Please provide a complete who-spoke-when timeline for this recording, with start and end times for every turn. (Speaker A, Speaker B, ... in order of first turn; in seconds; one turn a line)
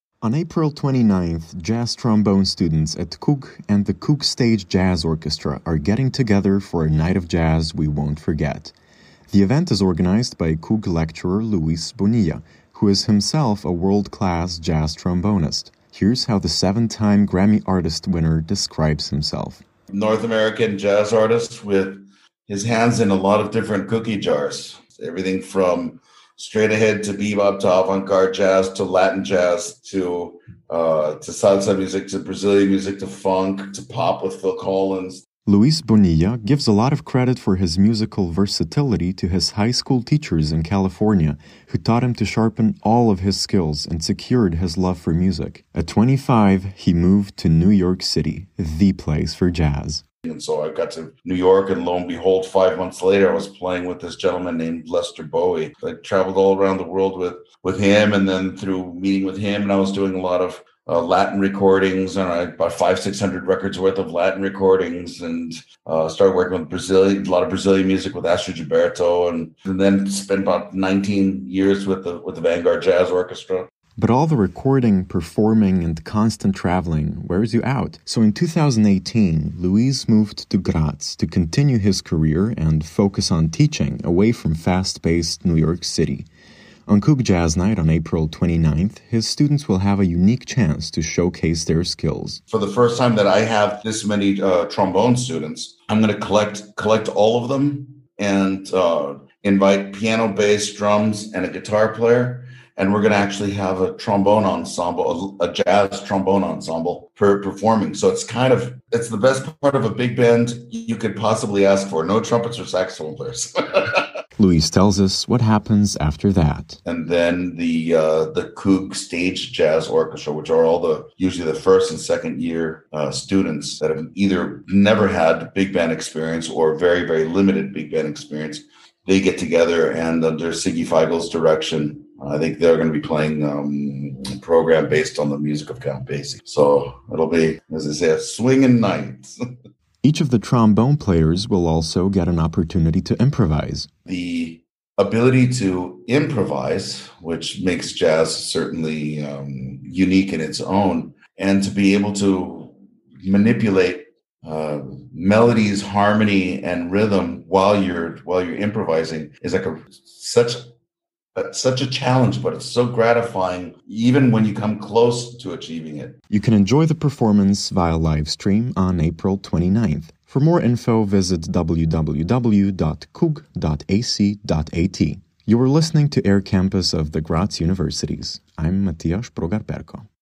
Speaker A: 0.2-8.7
Speaker A: 9.3-19.6
Speaker B: 19.9-35.2
Speaker A: 35.5-50.0
Speaker B: 50.2-73.7
Speaker A: 74.0-86.3
Speaker A: 86.9-92.4
Speaker B: 92.5-114.1
Speaker A: 114.4-116.8
Speaker B: 116.8-139.3
Speaker A: 140.0-143.9
Speaker B: 144.1-160.6
Speaker B: 161.3-166.2
Speaker A: 166.3-180.1